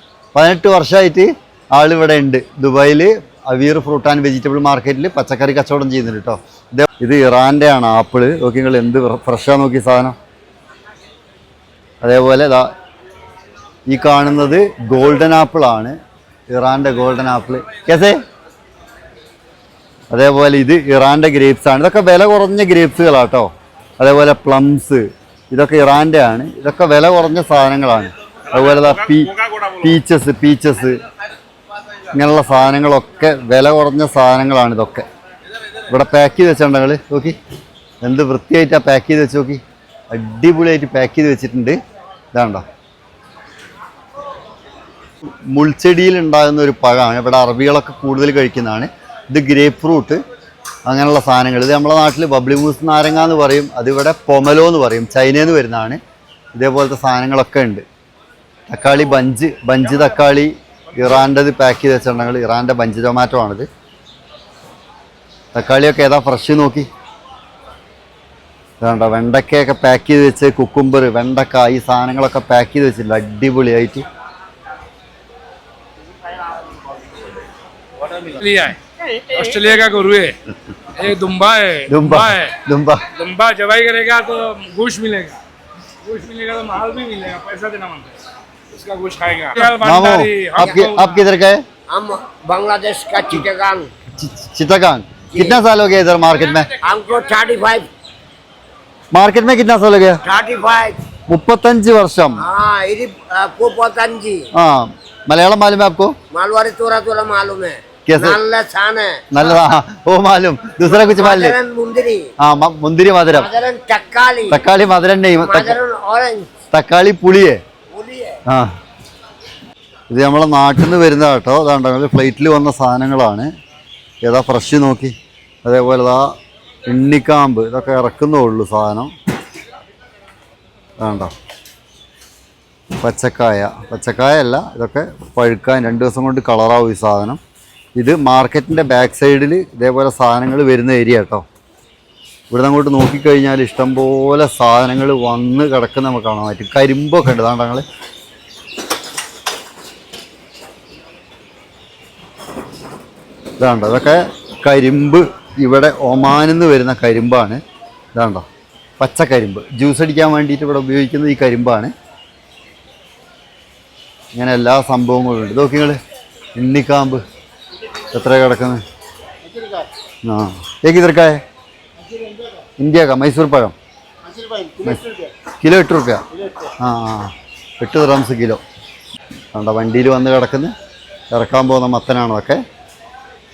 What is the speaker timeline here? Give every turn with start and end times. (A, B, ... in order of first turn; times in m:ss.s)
0:00.3-0:10.2 A
0:12.0-0:12.7 A
0:13.9-0:16.0 A
0:16.5-0:18.2 A
0:20.1-0:31.0 A
0:32.1-0:35.0 A
0:35.9-0:37.4 A
0:38.0-0:41.8 A
0:42.3-0:42.6 A
0:45.2-0:50.2 A
0:50.8-0:56.0 A
0:56.6-0:57.8 A
0:58.7-1:03.7 A
1:05.5-1:06.9 A
1:08.8-1:14.0 A
1:18.3-1:20.4 B
1:20.9-1:22.5 B
1:21.9-1:23.1 A
1:23.1-1:25.4 B
1:26.0-1:28.2 B
1:28.7-1:31.2 B
1:29.8-1:31.6 A
1:31.9-1:33.9 C
1:34.2-1:36.7 A
1:36.8-1:37.9 C
1:39.1-1:40.2 A
1:40.2-1:41.0 C
1:41.3-1:42.4 A
1:42.4-1:44.5 C
1:44.5-1:46.2 A
1:46.3-1:49.5 C
1:48.0-1:48.4 A
1:49.3-1:51.6 A
1:50.8-1:52.3 C
1:52.4-1:53.5 A
1:53.3-1:54.6 C
1:54.5-1:55.8 A
1:55.4-1:56.5 C
1:56.7-1:57.6 A
1:57.9-1:58.4 C
1:58.5-1:58.7 A
2:00.1-2:03.5 A
2:04.2-2:06.3 A
2:06.8-2:09.1 A
2:11.0-2:11.3 A
2:13.0-2:17.4 A
2:18.0-2:21.4 A
2:22.5-2:27.8 A
2:33.6-2:37.6 A
2:38.1-2:38.4 A
2:39.0-2:41.9 A
2:44.3-2:46.0 A
2:46.6-2:47.2 A
2:48.1-2:48.8 A
2:50.2-2:51.4 A
2:52.8-2:53.7 A
2:54.8-2:56.2 A
2:56.8-2:58.6 A
2:59.5-3:00.7 A
3:01.3-3:02.6 A